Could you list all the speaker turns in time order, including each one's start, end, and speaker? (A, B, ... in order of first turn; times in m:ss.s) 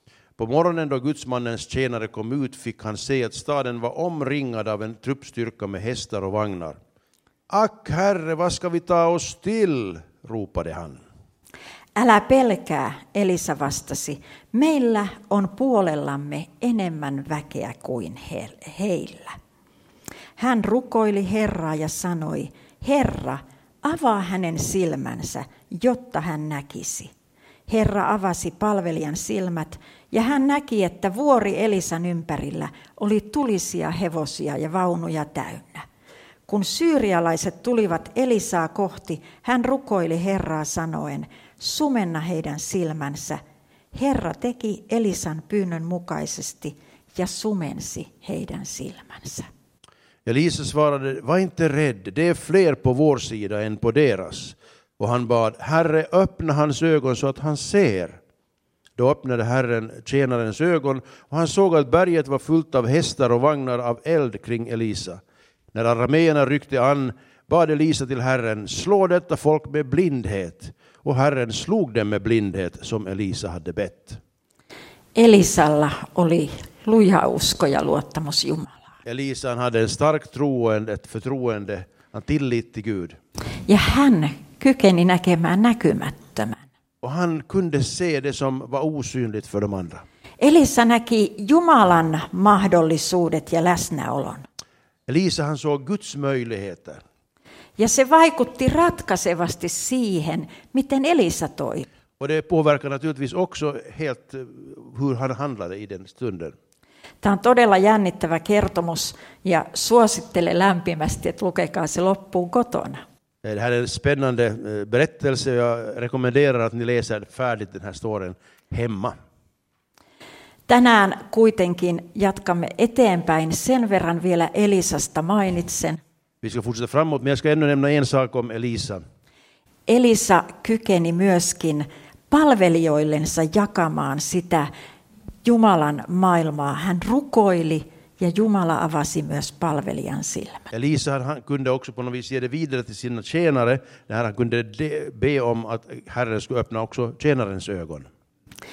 0:00.4-0:06.8 A
0:07.5-0:11.0 A
0:12.0-0:19.4 B
0:20.4-0:27.1 B
0:27.7-0:35.9 B
0:36.5-0:43.4 B
0:43.9-0:49.5 B
0:50.2-0:58.2 A
0:59.0-1:05.2 A
1:05.7-1:14.2 A
1:15.2-1:18.8 B
1:19.0-1:23.2 A
1:23.7-1:26.6 B
1:27.0-1:30.0 A
1:30.4-1:34.5 B
1:35.1-1:37.0 A
1:37.8-1:41.9 B
1:42.2-1:46.6 A
1:47.2-1:53.0 B
1:53.4-1:59.2 A
2:00.7-2:06.0 B
2:06.4-2:09.0 A
2:09.9-2:14.7 B
2:15.4-2:20.7 B
2:20.7-2:28.1 A